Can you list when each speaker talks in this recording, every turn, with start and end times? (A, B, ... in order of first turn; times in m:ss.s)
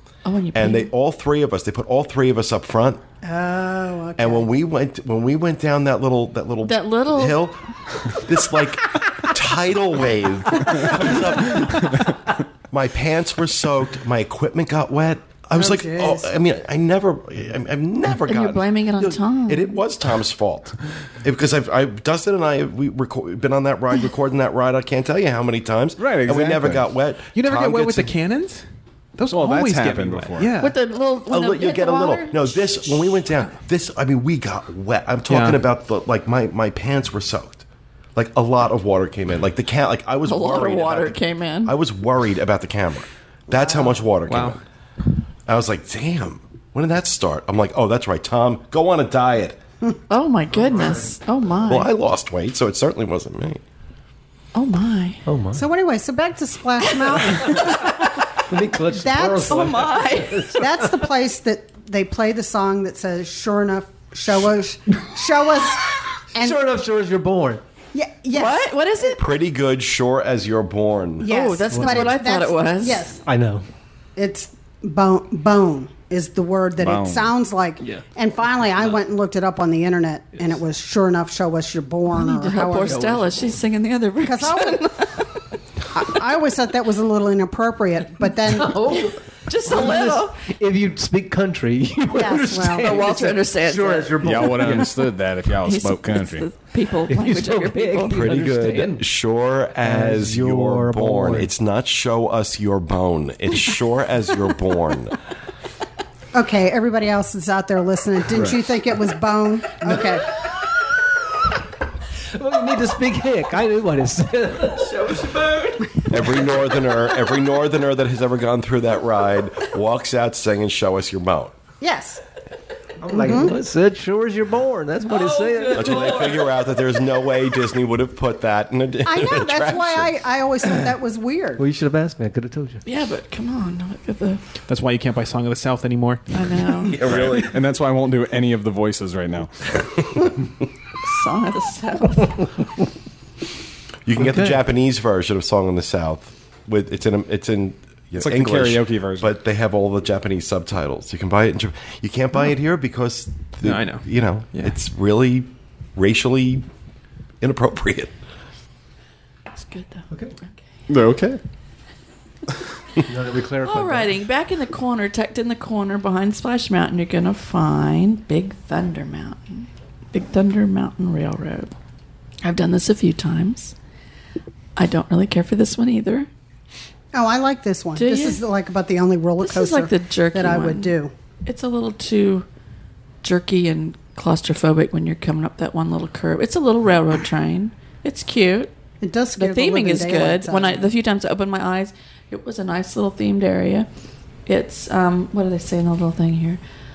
0:00.2-0:00.9 A
0:00.5-0:03.0 B
0:03.2-0:04.5 C
0:04.2-0:12.0 B
0:06.6-0:07.5 A
0:12.7-0:28.1 B
0:15.6-0:16.2 C
0:18.3-0:19.8 A
0:26.0-0:26.9 D
0:27.3-0:28.6 E
0:29.2-0:30.8 E
0:29.2-0:30.6 D
0:30.6-0:32.9 A
0:31.3-0:37.6 B
0:35.3-0:35.6 E
0:38.2-0:44.6 B
0:40.2-0:41.8 A
0:43.5-0:43.9 C
0:44.3-0:44.6 E
0:45.5-0:49.6 B
0:50.1-0:51.9 A
0:50.7-0:51.0 F
0:51.7-0:53.6 B
0:54.6-0:55.2 A
0:55.3-0:55.6 F
0:55.5-0:58.1 C
0:57.0-0:58.2 A
0:58.5-1:00.9 F
0:58.9-0:59.9 C
0:59.5-1:00.6 A
1:00.5-1:06.6 C
1:06.4-1:07.6 F
1:07.9-1:08.7 C
1:08.3-1:09.4 A
1:09.2-1:11.3 B
1:11.2-1:13.2 C
1:11.2-1:13.1 A
1:11.7-1:12.1 F
1:13.2-1:13.6 F
1:14.2-1:23.0 C
1:16.8-1:17.3 D
1:22.1-1:25.5 A
1:22.7-1:23.4 F
1:24.2-1:24.9 C
1:25.9-1:29.1 C
1:28.4-1:35.1 F
1:29.5-1:30.4 A
1:32.1-1:33.2 C
1:32.6-1:34.9 A
1:34.2-1:36.5 D
1:35.6-1:38.3 A
1:37.1-1:39.0 F
1:38.1-1:45.2 B
1:39.8-1:41.5 F
1:46.3-1:50.3 C
1:52.2-1:54.9 F
1:54.7-1:56.6 A
1:56.1-2:01.5 B
2:01.8-2:02.2 C
2:03.0-2:06.3 F
2:03.1-2:03.6 C
2:05.0-2:06.5 A
2:05.7-2:10.1 B
2:09.0-2:11.6 C
2:11.6-2:12.8 F
2:12.9-2:14.5 A
2:14.7-2:16.3 E
2:16.3-2:17.0 A
2:16.9-2:17.6 B
2:17.0-2:19.5 D
2:21.0-2:22.4 A
2:24.0-2:36.6 B
2:24.2-2:24.6 F
2:28.2-2:29.3 D
2:33.6-2:34.7 E
2:37.4-2:38.1 B
2:39.6-2:40.1 A
2:40.9-2:41.4 D
2:43.1-2:44.2 F
2:43.6-2:51.8 A
2:52.4-2:53.8 A
2:54.8-2:56.3 A
2:57.1-3:01.1 C
2:58.0-2:58.4 A
2:59.4-3:02.5 A
3:03.2-3:08.7 A
3:09.0-3:10.9 C
3:09.4-3:13.9 A
3:14.5-3:16.6 A